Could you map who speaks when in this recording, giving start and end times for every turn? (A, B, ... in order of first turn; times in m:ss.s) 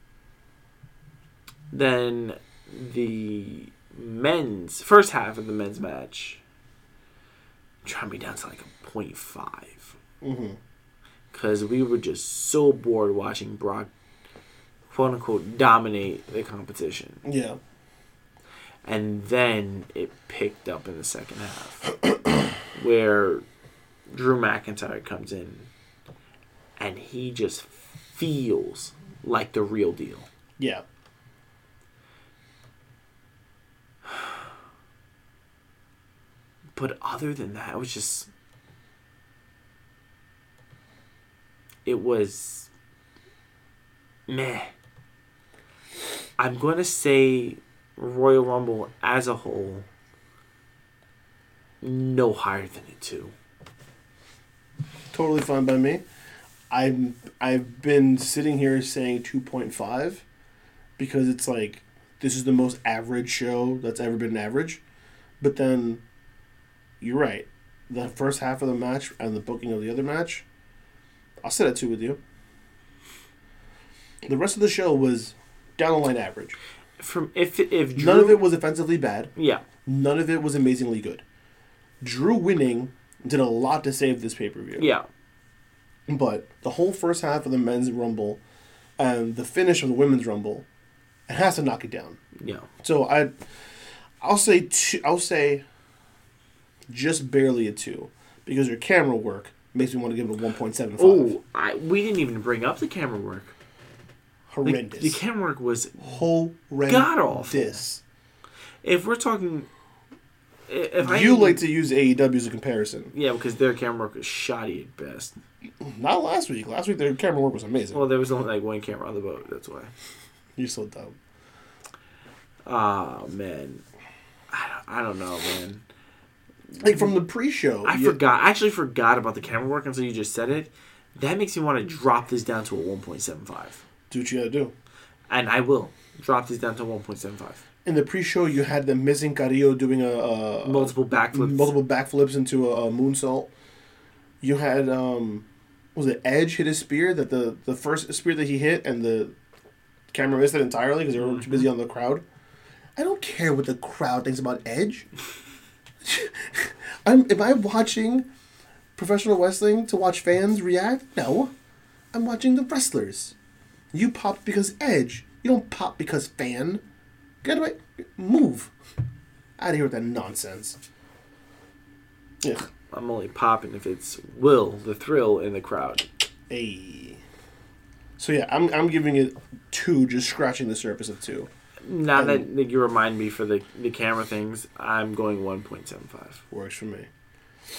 0:01.7-0:06.4 A
0:07.8-0:10.0 A
0:10.2-0:10.6 B
0:11.3-0:13.9 A
0:14.9-0:17.2 A
0:17.2-0:17.6 B
0:18.8-0:21.8 A
0:22.7-0:23.4 A
0:24.1-0:25.7 A
0:26.8-0:30.3 A
0:36.8-0:38.3 A
0:41.8-0:42.7 A
0:44.3-0:44.7 A
0:46.4-0:49.9 A
0:51.8-0:53.3 A
0:55.1-0:56.0 B
0:56.7-1:00.2 B
1:01.0-1:04.8 B
1:05.4-1:06.0 B
1:07.0-1:10.4 B
1:11.4-1:12.2 B
1:14.3-1:16.6 B
1:17.0-1:18.4 A
1:18.0-1:19.3 B
1:19.4-1:19.6 A
1:19.9-1:21.2 B
1:22.0-1:24.9 B
1:24.8-1:25.1 A
1:26.1-1:28.4 B
1:29.0-1:30.7 B
1:31.3-1:32.2 B
1:32.4-1:32.7 A
1:32.8-1:33.3 B
1:34.2-1:35.6 B
1:36.9-1:41.4 B
1:41.0-1:43.5 A
1:44.5-1:45.2 B
1:44.6-1:46.1 A
1:46.0-1:48.0 B
1:46.9-1:47.8 A
1:48.8-1:49.7 A
1:50.7-1:51.6 A
1:51.0-1:53.1 B
1:53.1-1:55.4 A
1:55.8-1:58.0 B
1:57.9-1:59.9 A
2:00.6-2:01.2 B
2:02.6-2:03.8 A
2:04.5-2:05.8 A
2:06.8-2:08.2 B
2:07.8-2:13.8 A
2:14.1-2:14.7 B
2:15.3-2:17.6 A
2:17.8-2:23.5 B
2:20.6-2:21.7 A
2:24.4-2:29.4 B
2:30.1-2:32.2 B
2:31.2-2:31.7 A
2:33.0-2:35.1 B
2:36.0-2:38.3 B
2:39.0-2:41.5 B
2:42.1-2:43.4 B
2:43.9-2:46.8 B
2:47.4-2:48.7 B
2:49.6-2:50.8 B
2:52.4-2:52.7 B
2:52.9-2:56.1 A
2:56.5-2:57.2 B
2:58.2-3:01.5 B
3:01.8-3:06.4 A
3:02.2-3:02.5 B
3:06.5-3:07.1 B